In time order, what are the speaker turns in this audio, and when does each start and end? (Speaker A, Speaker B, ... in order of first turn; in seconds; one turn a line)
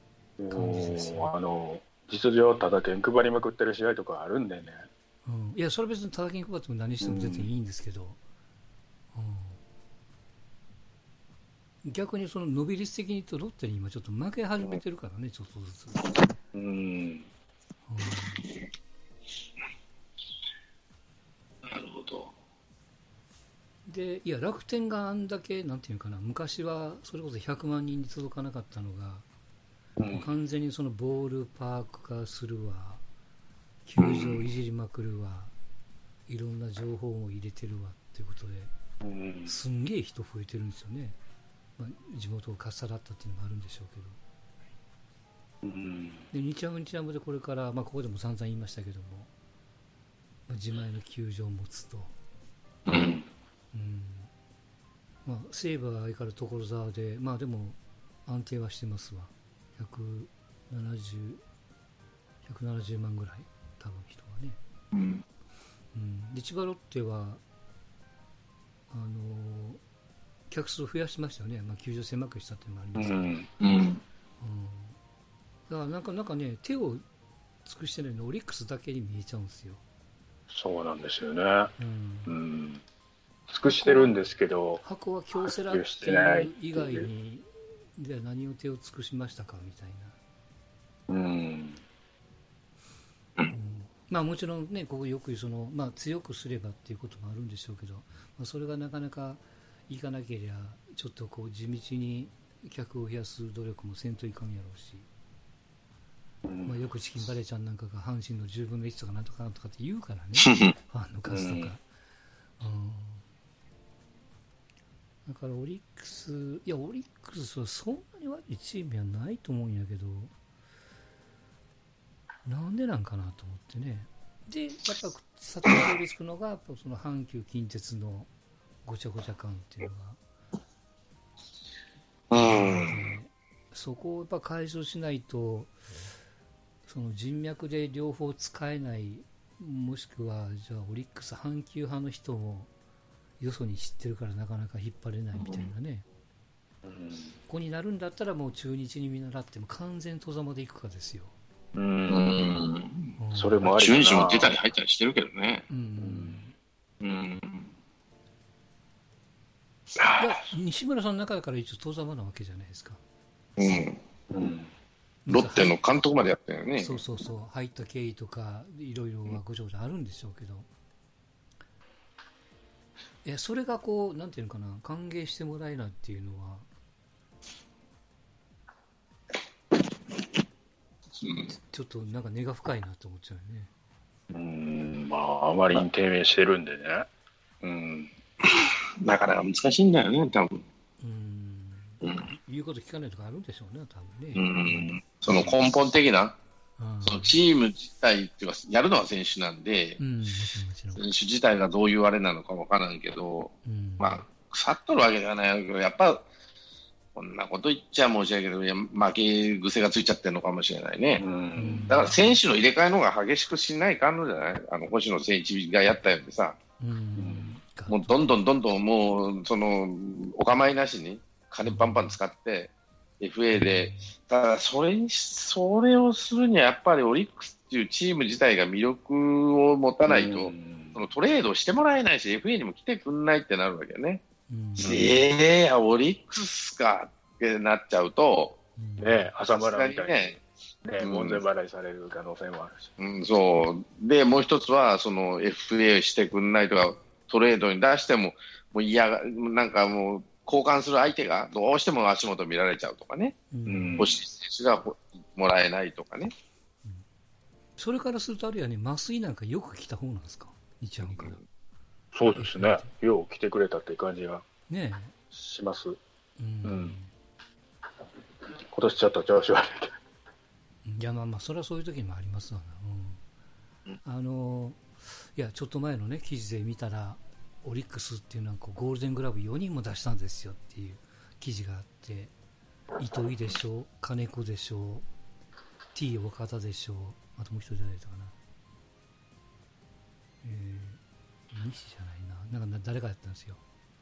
Speaker A: 0.4-4.9
Speaker B: 0.5-1.3
Speaker B: 5.2-8.2
Speaker A: 7.0-7.5
Speaker B: 9.1-9.6
Speaker B: 11.8-16.0
Speaker A: 16.5-17.3
Speaker B: 17.9-18.4
Speaker C: 21.6-22.3
Speaker B: 23.9-29.3
Speaker A: 30.0-30.3
Speaker B: 30.1-33.0
Speaker B: 33.9-35.5
Speaker C: 34.0-34.5
Speaker B: 36.3-38.7
Speaker A: 39.0-39.6
Speaker B: 39.5-41.2
Speaker B: 41.8-44.2
Speaker A: 45.6-46.3
Speaker B: 46.3-49.3
Speaker B: 50.5-52.1
Speaker C: 52.9-53.2
Speaker A: 52.9-53.3
Speaker B: 53.7-54.3
Speaker B: 55.2-61.4
Speaker B: 62.4-64.6
Speaker C: 64.9-65.2
Speaker B: 65.9-67.4
Speaker B: 68.9-69.8
Speaker B: 70.5-73.4
Speaker A: 73.0-73.5
Speaker C: 73.6-74.0
Speaker B: 74.4-75.0
Speaker B: 75.7-77.0
Speaker B: 77.7-79.8
Speaker A: 80.5-81.7
Speaker B: 81.8-82.4
Speaker A: 82.3-82.8
Speaker A: 83.5-84.8
Speaker B: 83.7-84.2
Speaker B: 84.8-90.2
Speaker A: 85.4-87.1
Speaker A: 91.1-91.8
Speaker B: 93.5-105.1
Speaker A: 106.5-106.8
Speaker B: 106.7-111.8
Speaker C: 110.5-110.7
Speaker A: 111.3-111.7
Speaker B: 112.6-113.2
Speaker B: 115.2-120.3
Speaker B: 122.5-128.3
Speaker B: 128.8-130.2
Speaker C: 132.3-133.2
Speaker B: 132.4-135.8
Speaker B: 136.9-142.7
Speaker B: 143.4-146.1
Speaker C: 145.4-145.7
Speaker A: 146.8-147.4
Speaker B: 147.5-151.3
Speaker A: 151.8-152.4
Speaker C: 152.1-155.7
Speaker B: 153.2-153.7
Speaker A: 153.3-154.6
Speaker B: 155.7-156.6
Speaker A: 156.0-156.4
Speaker C: 157.0-157.7
Speaker C: 160.0-160.4
Speaker B: 160.2-163.0
Speaker C: 163.6-164.0
Speaker A: 164.3-164.7
Speaker B: 165.2-165.8
Speaker C: 165.3-167.0
Speaker B: 166.8-170.7
Speaker B: 173.2-176.7
Speaker C: 181.2-181.5
Speaker B: 181.5-183.7
Speaker A: 184.3-187.1
Speaker A: 187.6-188.1
Speaker C: 188.5-190.7
Speaker B: 191.0-195.0
Speaker C: 194.3-196.4
Speaker B: 196.8-197.3
Speaker C: 197.0-200.0
Speaker B: 200.0-201.1
Speaker C: 201.0-206.2
Speaker B: 203.6-204.3
Speaker C: 207.2-211.2
Speaker A: 211.2-212.0
Speaker B: 211.6-212.4
Speaker C: 211.9-216.6
Speaker B: 216.8-218.4
Speaker A: 217.2-217.6
Speaker C: 217.9-234.2
Speaker B: 221.6-222.2
Speaker B: 223.5-224.2
Speaker A: 230.1-231.0
Speaker B: 234.5-235.0
Speaker A: 234.8-235.2
Speaker C: 234.8-238.6
Speaker B: 238.8-239.3
Speaker A: 239.0-242.9
Speaker C: 239.5-240.3
Speaker C: 241.0-241.4
Speaker C: 243.0-253.4
Speaker B: 253.5-254.1
Speaker A: 253.7-254.1
Speaker C: 254.0-256.3
Speaker B: 257.8-261.4
Speaker C: 261.1-261.4
Speaker A: 262.1-264.5
Speaker B: 262.4-262.9
Speaker B: 264.7-265.1
Speaker A: 265.3-266.0
Speaker B: 266.4-267.1
Speaker A: 266.6-267.0
Speaker A: 268.7-270.0
Speaker B: 270.9-273.2
Speaker B: 274.0-282.3
Speaker B: 283.0-285.1
Speaker B: 285.9-288.4
Speaker B: 290.4-291.0
Speaker B: 291.5-293.6